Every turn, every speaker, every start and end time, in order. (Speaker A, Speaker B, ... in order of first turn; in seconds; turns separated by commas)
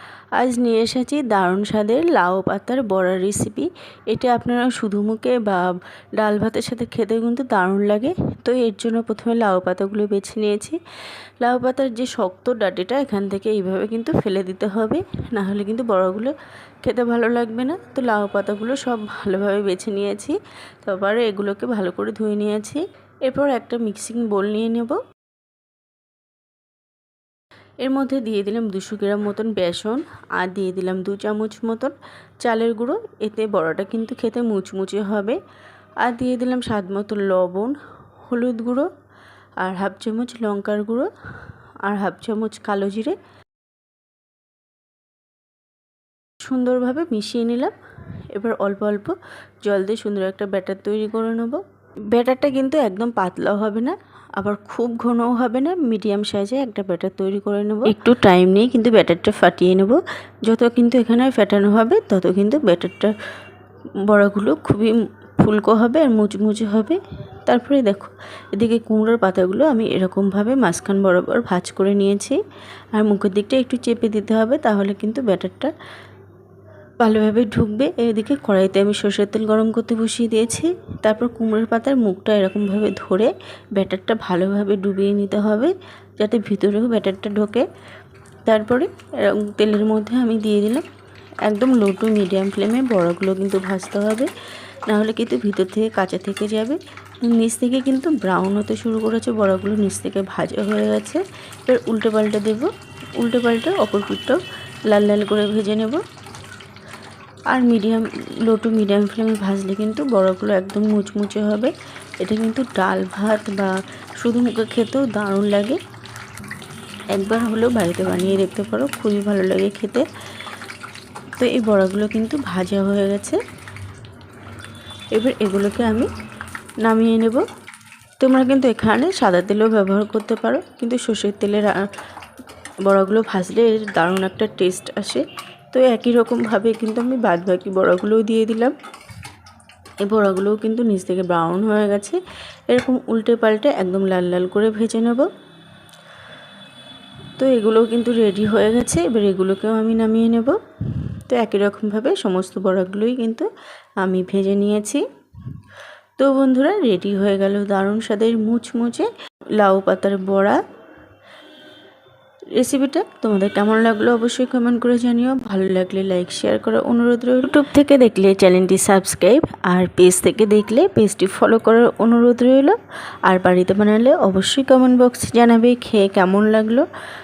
Speaker A: 0.3-10.8, Speaker A: 11.4-25.0, Speaker A: 27.8-35.4, Speaker A: 36.0-38.9, Speaker A: 39.6-41.1, Speaker A: 41.8-43.2, Speaker A: 46.4-47.8, Speaker A: 48.3-63.1, Speaker A: 64.0-72.4, Speaker A: 72.9-75.7, Speaker A: 77.0-87.7, Speaker A: 88.5-90.8, Speaker A: 91.5-94.3, Speaker A: 94.9-106.0, Speaker A: 107.5-115.8, Speaker A: 117.1-120.1, Speaker A: 121.4-123.4, Speaker A: 125.1-126.1, Speaker A: 126.8-127.5, Speaker A: 128.2-131.8, Speaker A: 132.8-138.7, Speaker A: 140.0-145.3, Speaker A: 147.4-153.5, Speaker A: 154.0-155.1, Speaker A: 156.2-160.6, Speaker A: 162.6-176.9